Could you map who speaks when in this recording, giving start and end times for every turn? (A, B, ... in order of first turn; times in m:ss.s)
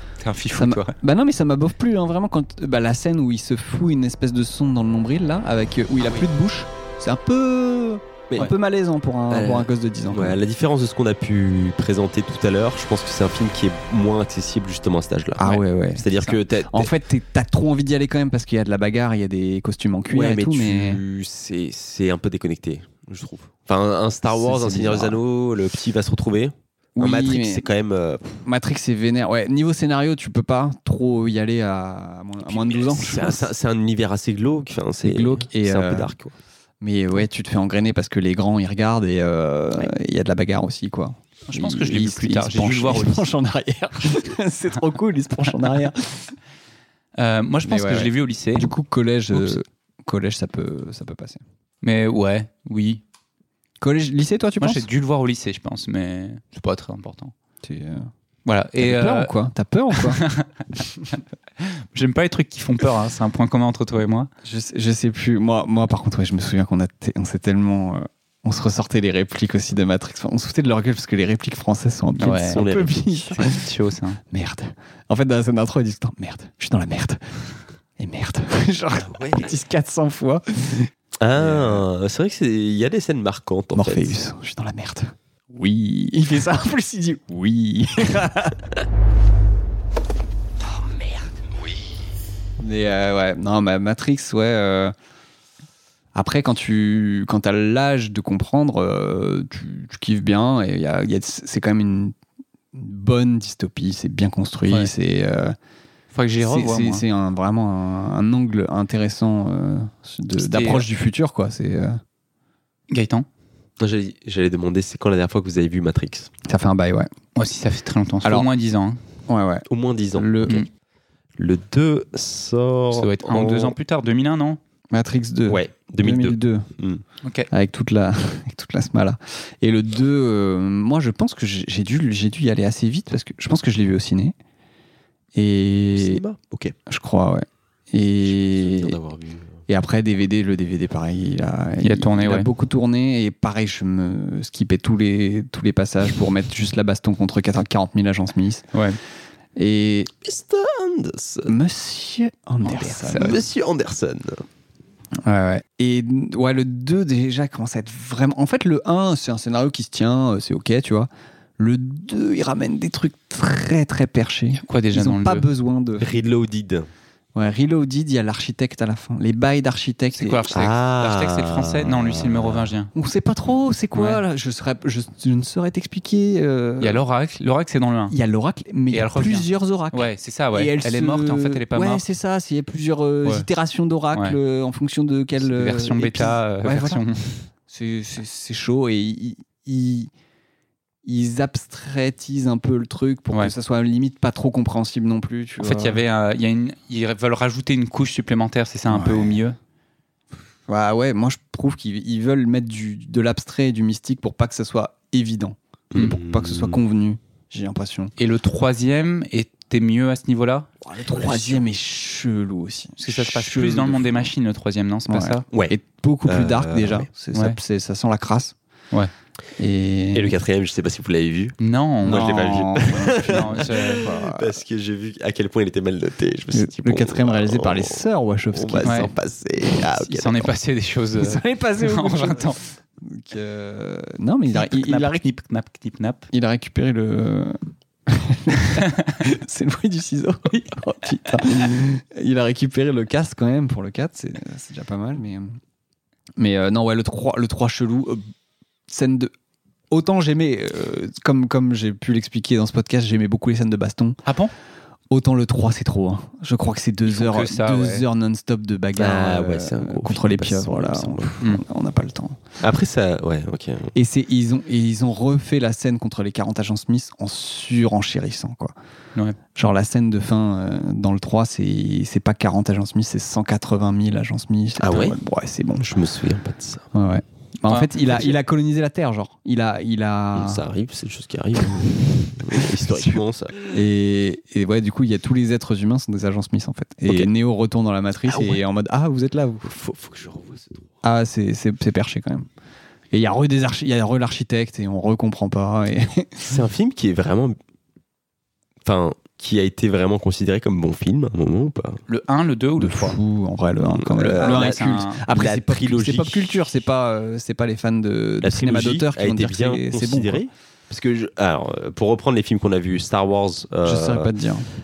0:00.2-0:00.9 A
0:00.5-0:10.4 B
0:09.3-0:16.9 C
0:15.4-0:16.1 B
0:16.7-0:21.0 B
0:20.1-0:28.4 C
0:24.3-0:25.2 B
0:27.0-0:27.7 B
0:28.4-0:33.5 B
0:32.5-0:36.4 C
0:35.0-0:36.1 B
0:36.8-0:46.4 B
0:41.5-0:43.3 A
0:47.2-0:48.7 A
0:47.6-0:51.4 B
0:51.8-0:53.0 A
0:53.8-0:54.9 B
0:54.6-0:57.3 A
0:57.6-0:58.1 B
0:58.5-0:59.3 A
0:58.8-1:00.2 B
1:00.0-1:04.3 A
1:04.4-1:13.7 B
1:12.2-1:12.6 A
1:12.5-1:13.3 C
1:13.3-1:14.2 A
1:14.3-1:21.8 B
1:19.0-1:19.5 C
1:21.2-1:24.2 C
1:23.7-1:28.7 B
1:32.6-1:34.9 B
1:36.2-1:42.2 B
1:42.7-1:45.6 B
1:46.1-1:47.0 A
1:46.4-1:52.0 B
1:50.4-1:50.9 A
1:52.9-1:53.3 A
1:53.8-1:56.3 C
1:56.4-1:57.1 B
1:57.4-1:59.0 A
1:58.2-1:58.5 B
1:59.3-2:00.6 B
1:59.7-2:00.4 C
2:01.4-2:03.8 C
2:02.9-2:04.6 A
2:04.9-2:06.7 B
2:05.5-2:07.0 C
2:07.2-2:07.5 A
2:07.5-2:14.4 B
2:15.4-2:16.2 B
2:15.9-2:16.8 C
2:16.9-2:19.0 B
2:18.2-2:19.6 C
2:19.7-2:28.7 B
2:21.8-2:22.5 A
2:29.6-2:30.1 B
2:30.2-2:31.5 C
2:31.5-2:33.4 B
2:32.6-2:33.4 A
2:33.2-2:34.4 C
2:35.3-2:35.6 A
2:35.6-2:46.1 B
2:44.6-2:45.5 A
2:46.0-2:46.9 C
2:47.4-2:50.4 B
2:50.2-2:52.9 A
2:50.5-2:52.7 C
2:53.0-2:57.0 B
2:54.0-2:54.2 A
2:56.8-2:58.2 A
2:58.1-3:07.0 B
2:58.9-3:02.0 A
3:04.1-3:04.4 A
3:05.4-3:07.4 A
3:07.7-3:10.1 B
3:11.0-3:16.0 B
3:15.6-3:19.6 A
3:18.9-3:19.4 B
3:20.7-3:28.1 B
3:25.9-3:26.8 C
3:28.2-3:30.7 A
3:30.8-3:34.3 B
3:31.1-3:31.6 C
3:33.0-3:35.5 A
3:35.1-3:38.6 B
3:35.5-3:37.1 C
3:39.6-3:40.4 B
3:40.1-3:50.5 C
3:41.6-3:44.1 A
3:42.0-3:44.6 B
3:46.5-3:49.1 B
3:48.8-3:49.1 A
3:50.1-3:52.6 A
3:51.2-3:55.2 B
3:54.5-3:56.3 A
3:56.3-4:05.6 B
3:58.7-3:59.2 A
4:06.4-4:08.2 B
4:08.9-4:09.3 B
4:09.9-4:14.2 B
4:14.3-4:14.5 A
4:15.1-4:22.4 B
4:17.1-4:18.0 A
4:19.0-4:21.4 C
4:22.6-4:24.0 C
4:24.0-4:28.8 B
4:29.6-4:35.9 B
4:34.8-4:35.2 C
4:35.8-4:36.9 C
4:36.9-4:40.6 B
4:38.1-4:38.4 C
4:40.4-4:43.8 C
4:42.8-4:43.2 B
4:43.7-4:49.7 B
4:48.3-4:48.6 C
4:49.6-4:50.9 C
4:51.0-4:52.5 B
4:53.1-4:56.6 B
4:56.4-4:57.6 C
4:58.8-5:02.0 C
5:02.1-5:03.2 A
5:02.8-5:10.4 B
5:03.9-5:06.5 C
5:04.4-5:05.2 A
5:08.4-5:14.3 C
5:13.8-5:14.7 B